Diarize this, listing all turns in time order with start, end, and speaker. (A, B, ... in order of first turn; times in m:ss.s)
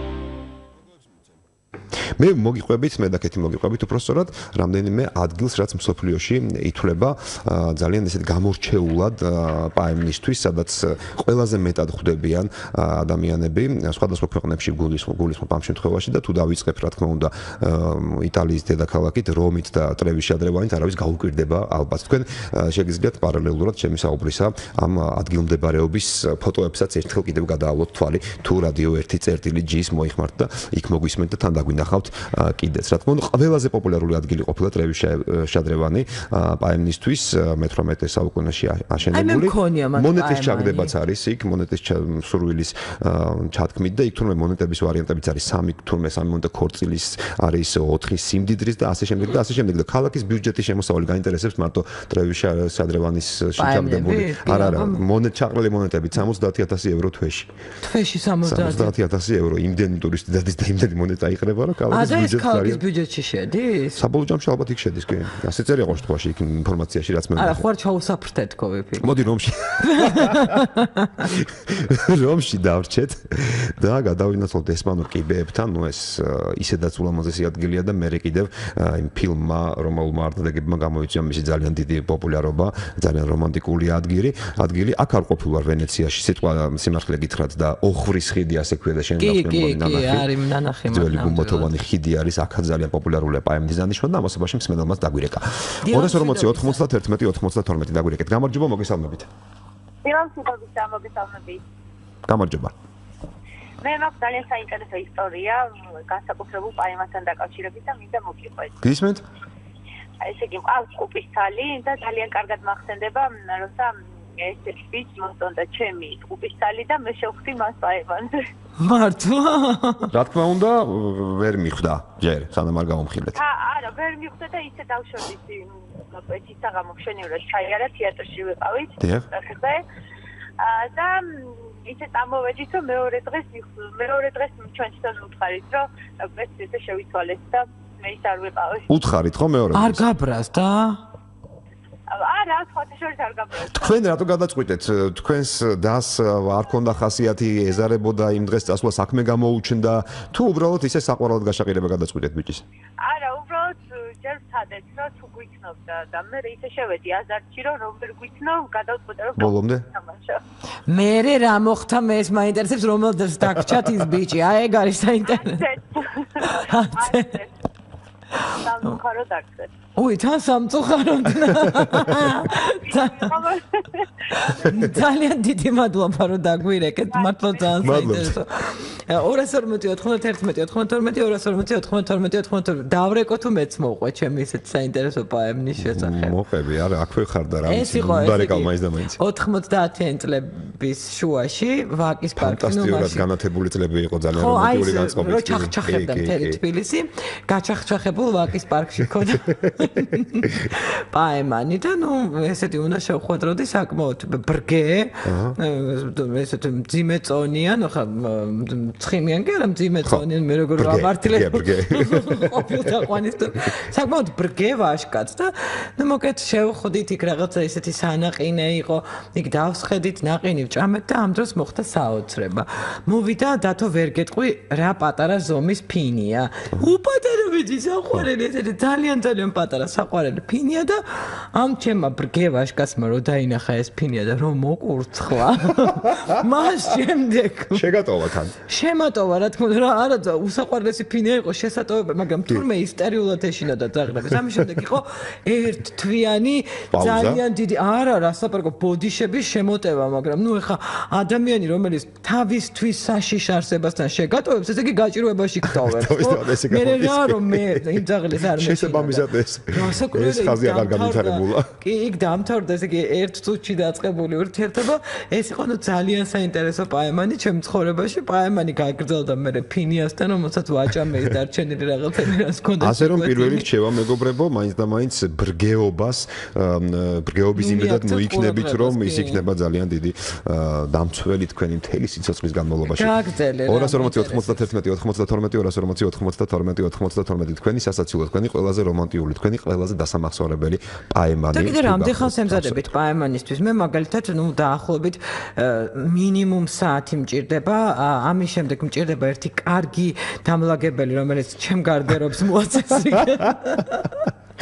0:02.2-0:57.5 A
0:39.1-0:40.9 B
0:53.6-0:55.0 B
0:57.8-0:58.9 B
0:58.4-1:02.8 A
1:01.9-1:04.0 B
1:04.0-1:07.6 A
1:07.4-1:09.1 B
1:09.0-1:10.6 A
1:09.8-1:11.2 B
1:11.2-1:30.3 A
1:29.2-1:31.7 B
1:30.9-1:39.3 A
1:35.8-1:36.8 B
1:40.0-1:41.6 C
1:42.3-1:42.8 A
1:43.8-1:48.8 C
1:48.8-1:49.2 A
1:50.2-1:58.4 C
1:58.8-2:00.1 B
2:00.1-2:03.4 A
2:03.4-2:09.8 C
2:09.0-2:09.3 A
2:10.6-2:18.9 C
2:18.9-2:20.1 A
2:19.7-2:21.0 B
2:22.1-2:24.0 C
2:23.7-2:32.6 A
2:33.0-2:40.4 C
2:39.4-2:39.9 A
2:40.9-2:45.6 B
2:45.3-2:47.5 C
2:46.5-2:47.4 B
2:48.5-2:49.7 C
2:50.0-2:53.4 B
2:52.4-2:54.7 C
2:54.4-3:06.3 B
2:57.1-2:57.9 C
2:57.7-2:58.4 A
3:05.8-3:09.2 A
3:07.7-3:13.3 B
3:12.4-3:16.6 A
3:14.3-3:57.9 B
3:19.3-3:19.8 A
3:25.2-3:25.6 A
3:30.8-3:33.1 A
3:55.9-3:56.4 A
3:57.7-3:58.6 A
3:58.7-4:33.7 B
4:06.9-4:07.4 A
4:15.7-4:21.7 A
4:32.8-4:43.2 A
4:37.6-4:39.5 B
4:42.9-4:44.7 B
4:43.7-4:52.9 A
4:51.5-5:04.3 B